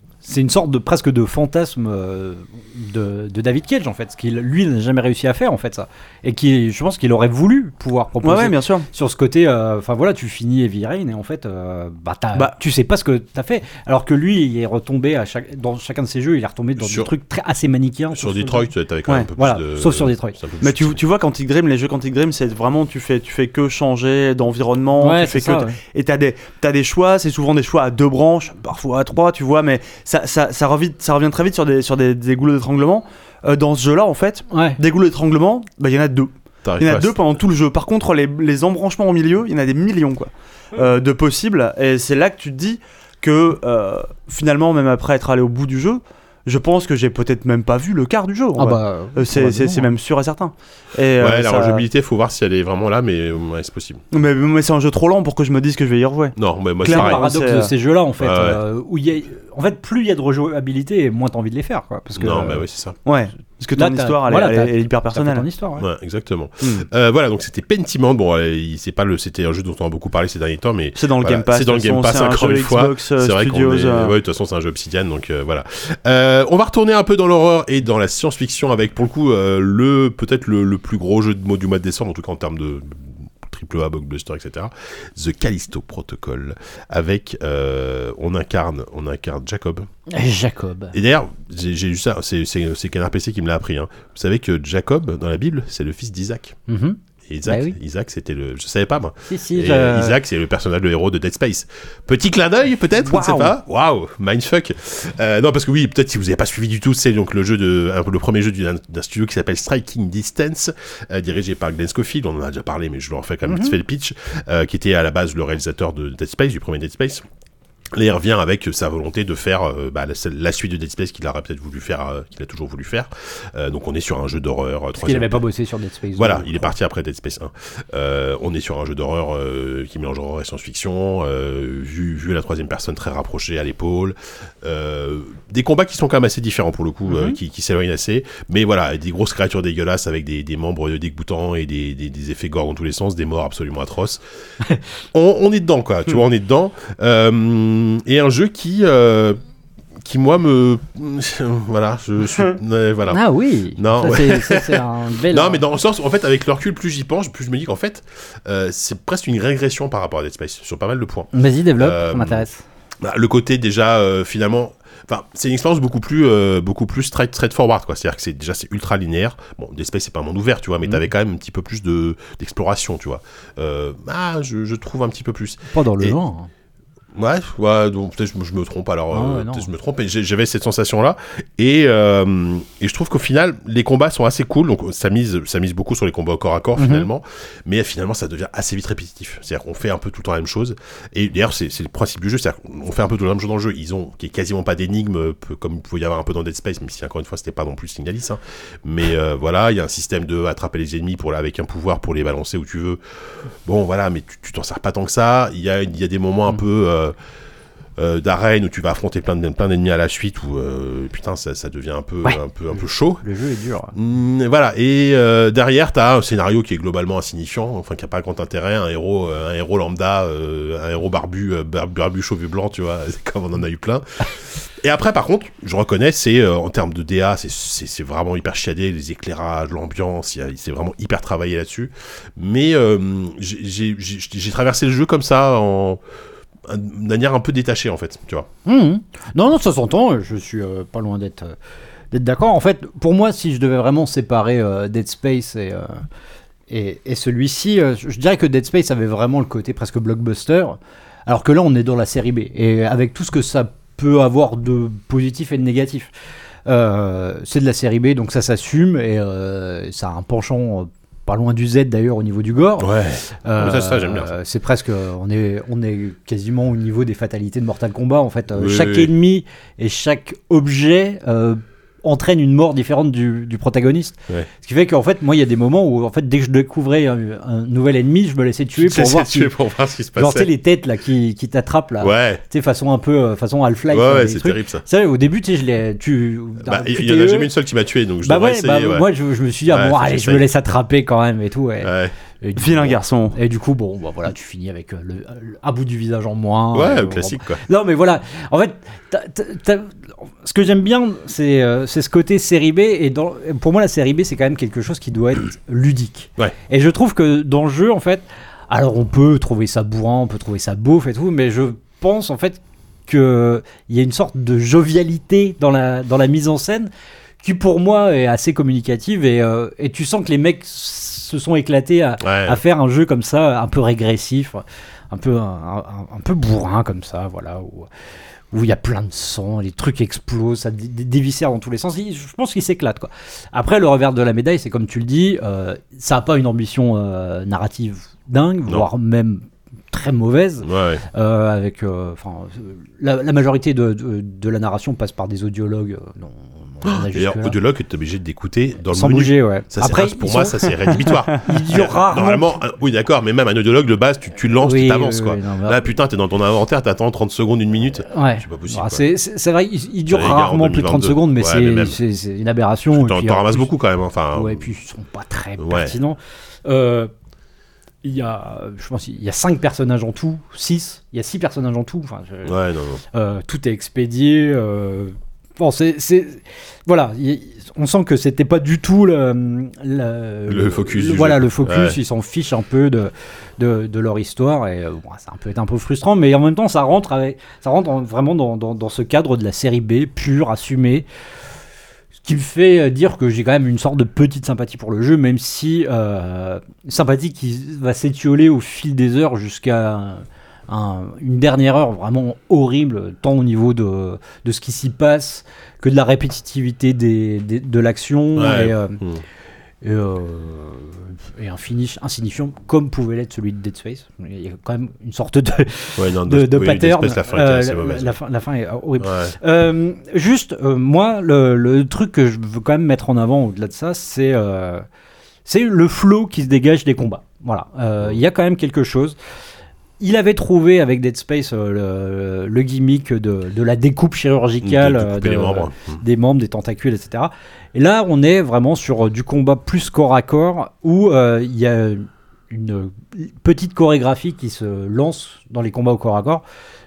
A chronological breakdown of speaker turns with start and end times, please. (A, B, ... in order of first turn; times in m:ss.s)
0:00.2-0:18.7 A
0:08.2-0:08.9 B
0:16.8-0:17.1 C
0:18.2-0:21.0 C
0:19.4-0:20.4 A
0:20.6-0:51.8 B
0:25.0-0:25.8 A
0:34.5-0:34.8 A
0:36.6-0:37.1 C
0:48.6-0:49.9 A
0:51.2-0:54.0 C
0:54.1-0:57.7 B
0:56.4-0:57.2 C
0:56.8-1:02.6 A
0:58.2-0:58.6 C
1:02.2-1:03.0 C
1:03.0-1:05.4 B
1:03.8-1:05.9 A
1:05.8-1:29.9 C
1:11.0-1:14.2 B
1:30.1-1:30.9 A
1:30.9-1:36.6 C
1:36.7-1:37.8 A
1:37.3-1:57.2 C
1:39.3-1:40.2 A
1:43.1-1:43.5 B
1:53.5-1:53.8 A
1:57.9-2:05.4 C
2:05.0-2:06.8 A
2:06.2-2:24.2 C
2:25.1-2:29.4 C
2:30.0-2:33.2 C
2:33.1-2:35.6 A
2:33.8-2:42.4 C
2:41.3-2:42.6 A
2:43.0-2:56.2 C
2:55.7-2:56.5 A
2:57.2-3:23.0 C
2:59.1-2:59.7 A
3:06.8-3:07.1 A
3:23.7-3:27.2 C
3:28.0-3:33.2 C
3:32.2-3:33.9 A
3:34.0-3:56.0 C
3:56.7-3:58.5 C
3:58.6-4:01.6 A
4:02.1-4:06.0 A
4:06.7-4:16.1 A
4:16.7-4:39.5 A
4:22.8-4:24.3 C
4:28.6-4:29.1 C
4:38.8-4:40.5 C
4:40.2-4:47.5 A
4:42.0-4:42.4 C
4:43.9-4:44.8 C
4:46.6-4:49.1 C
4:48.2-4:51.9 A
4:49.7-4:50.4 C
4:51.8-4:52.1 C
4:52.4-5:16.9 A
4:52.6-4:53.4 B
4:56.7-4:57.6 C
5:17.4-5:27.9 A
5:22.2-5:22.6 C
5:28.5-5:47.6 A
5:40.6-5:41.0 C
5:46.9-5:59.0 C
5:48.9-5:52.6 A
5:54.6-5:55.8 A
5:58.1-6:03.7 A
6:00.1-6:02.0 C
6:02.9-6:04.6 C
6:04.3-6:07.1 A
6:05.6-6:05.9 C
6:08.0-6:12.6 A
6:12.5-6:13.0 C
6:13.1-6:31.1 A
6:20.5-6:22.0 C
6:32.2-6:49.0 A
6:48.4-6:49.2 C
6:49.8-7:04.8 A
6:56.0-6:58.1 C
6:59.0-6:59.3 C
7:05.5-7:09.2 A
7:10.0-7:26.4 A
7:14.6-7:16.0 C